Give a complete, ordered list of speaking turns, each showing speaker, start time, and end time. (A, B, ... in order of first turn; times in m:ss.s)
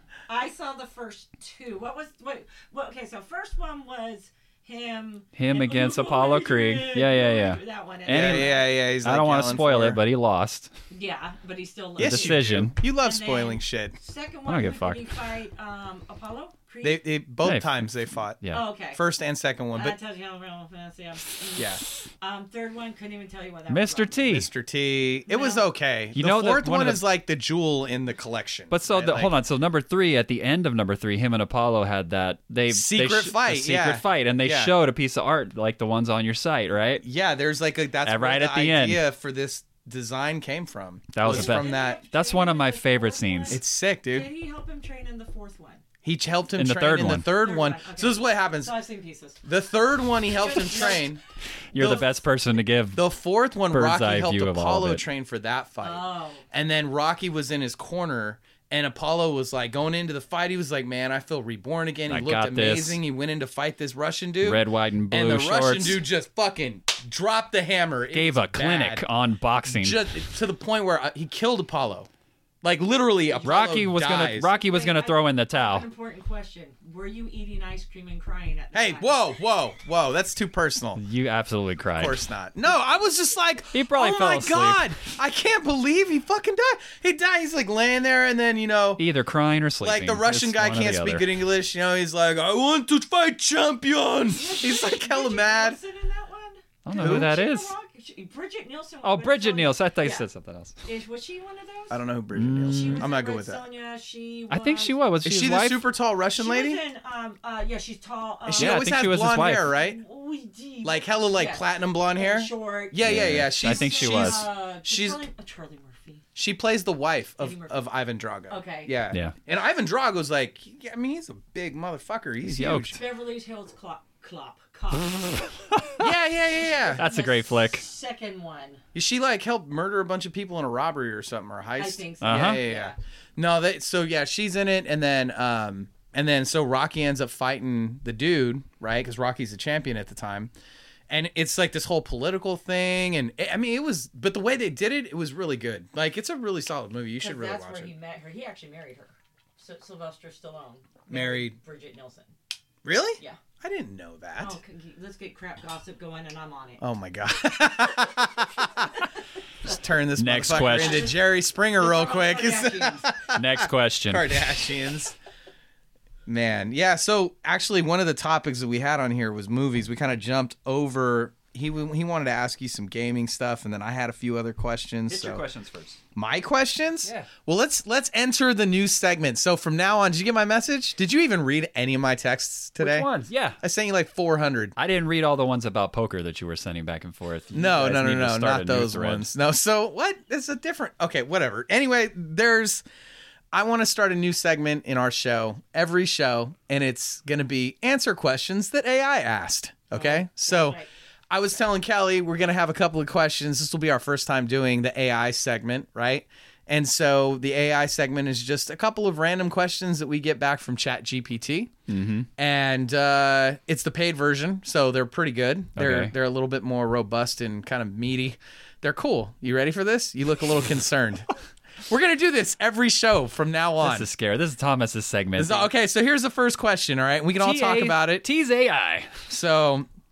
0:00.3-0:08.7 A
0:05.4-0:10.7 B
0:08.1-0:10.0 C
0:10.9-0:17.0 A
0:12.0-0:14.0 C
0:12.0-0:12.8 B
0:14.5-0:15.2 B
0:16.8-0:20.0 C
0:17.4-0:18.6 B
0:18.5-0:19.0 A
0:19.7-0:24.3 A
0:21.6-0:21.8 C
0:23.7-0:24.5 B
0:24.2-0:29.3 C
0:25.3-0:25.7 A
0:26.1-0:27.0 B
0:28.7-0:37.0 B
0:32.7-0:34.7 C
0:37.0-0:42.0 C
0:38.0-0:39.0 B
0:41.1-0:43.6 B
0:41.2-0:45.8 A
0:43.5-0:44.3 C
0:46.0-0:48.7 C
0:46.6-0:47.3 B
0:47.3-0:49.4 A
0:49.4-0:51.2 C
0:50.3-0:51.1 A
0:51.7-0:53.0 B
0:51.7-0:52.1 C
0:53.0-1:09.0 C
0:53.7-0:55.0 B
0:55.8-0:56.4 A
1:02.1-1:03.0 B
1:04.4-1:06.0 B
1:08.1-1:10.1 B
1:09.7-1:12.1 C
1:12.6-1:14.5 C
1:13.4-1:15.9 B
1:14.4-1:19.3 A
1:18.7-1:21.0 C
1:21.0-1:22.2 B
1:22.0-1:29.0 C
1:23.7-1:24.8 B
1:29.0-1:31.3 B
1:29.8-1:35.8 C
1:34.3-1:40.3 A
1:36.8-1:37.7 B
1:37.0-1:37.3 C
1:39.0-1:40.8 B
1:40.8-1:42.0 A
1:41.9-1:43.6 C
1:42.3-1:43.1 B
1:42.6-1:45.0 A
1:44.5-1:45.8 B
1:45.2-1:46.8 C
1:46.4-1:48.8 A
1:48.5-1:50.0 C
1:48.6-1:49.7 B
1:49.7-1:56.3 A
1:50.8-1:55.2 C
1:53.0-1:54.5 B
1:56.4-2:03.0 C
1:57.4-1:57.9 A
1:58.5-1:58.9 A
2:02.4-2:03.0 B
2:02.9-2:05.5 A
2:05.7-2:06.0 B
2:06.0-2:07.0 C
2:06.7-2:08.8 A
2:07.0-2:07.8 B
2:08.9-2:20.5 C
2:11.8-2:13.0 A
2:12.2-2:12.6 B
2:21.1-2:27.9 C
2:27.2-2:32.3 A
2:31.1-2:31.6 C
2:32.8-2:34.6 C
2:34.4-2:36.8 A
2:36.8-2:38.9 C
2:38.6-2:39.1 A
2:39.6-2:45.2 C
2:40.2-2:41.1 B
2:40.5-2:41.2 A
2:41.8-2:43.1 A
2:43.3-2:44.4 B
2:46.3-2:55.4 C
2:55.1-2:56.0 B
2:56.2-3:03.1 C
2:57.0-2:57.3 B
3:02.8-3:03.6 B
3:03.6-3:04.8 C
3:04.8-3:09.3 B
3:07.5-3:12.8 C
3:13.5-3:20.8 C
3:19.9-3:20.9 A
3:21.3-3:31.7 C
3:31.9-3:32.3 B
3:32.4-3:41.3 C
3:35.8-3:36.1 B
3:41.9-3:44.1 C
3:43.8-3:45.7 B
3:45.4-3:48.2 C
3:47.4-3:49.2 B
3:49.3-3:49.9 C